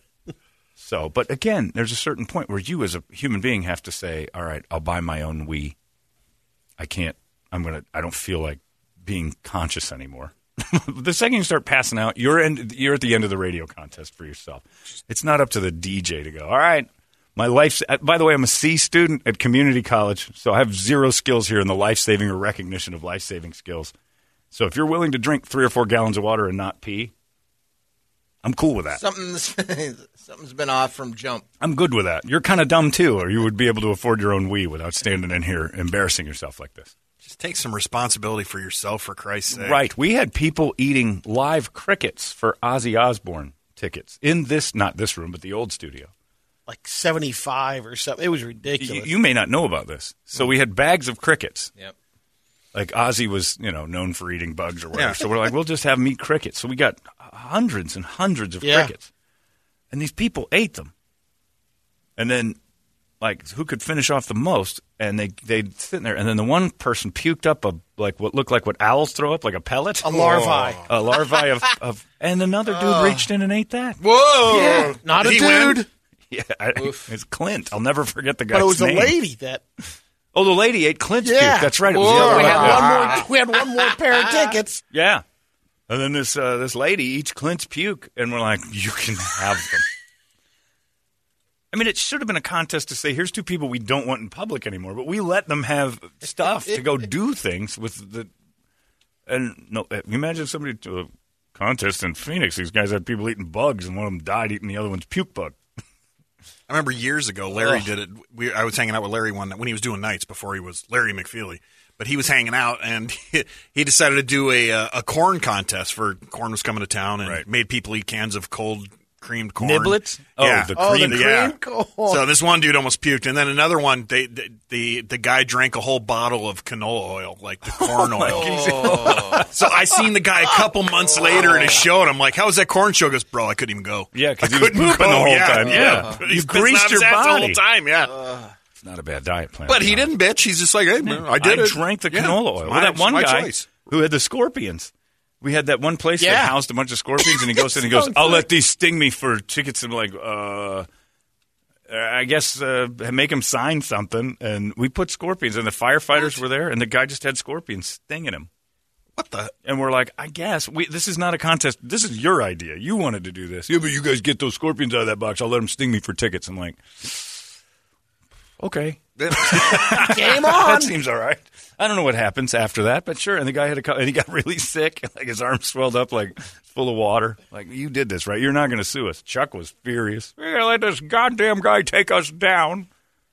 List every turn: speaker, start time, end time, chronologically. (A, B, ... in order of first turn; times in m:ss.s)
0:00.8-0:05.7 A
0:06.8-0:23.9 A
0:24.5-0:27.1 A
0:28.4-0:29.0 A
0:28.9-0:31.4 B
0:31.6-0:36.9 A
0:37.2-0:39.8 C
0:39.5-0:46.1 A
0:46.7-0:49.1 D
0:48.8-0:51.7 A
0:52.7-0:59.1 A
0:54.9-0:55.2 C
0:58.6-0:58.9 D
0:59.9-1:00.9 A
1:02.2-1:02.6 A
1:03.2-1:14.0 A
1:10.0-1:10.9 D
1:12.7-1:13.2 B
1:14.0-1:15.0 B
1:14.4-1:15.8 C
1:15.0-1:15.9 D
1:16.3-1:19.2 A
1:16.8-1:17.1 B
1:18.5-1:19.6 D
1:20.3-1:23.2 A
1:21.2-1:24.8 D
1:21.9-1:24.6 B
1:24.9-1:25.2 A
1:25.9-1:29.9 A
1:31.7-1:38.3 A
1:39.3-1:45.6 A
1:46.7-2:01.5 C
1:59.6-2:01.5 A
2:00.7-2:02.3 D
2:02.0-2:18.2 C
2:07.8-2:09.5 A
2:08.3-2:09.5 B
2:11.2-2:11.7 B
2:14.1-2:17.6 A
2:15.7-2:16.1 B
2:18.1-2:18.5 B
2:18.8-2:20.1 A
2:19.6-2:23.7 C
2:21.0-2:30.9 A
2:26.2-2:26.6 D
2:27.2-2:28.5 D
2:31.9-2:38.5 A
2:39.2-2:39.5 C
2:39.6-2:47.4 A
2:48.6-3:02.9 A
2:49.2-2:49.7 C
2:49.6-2:50.9 D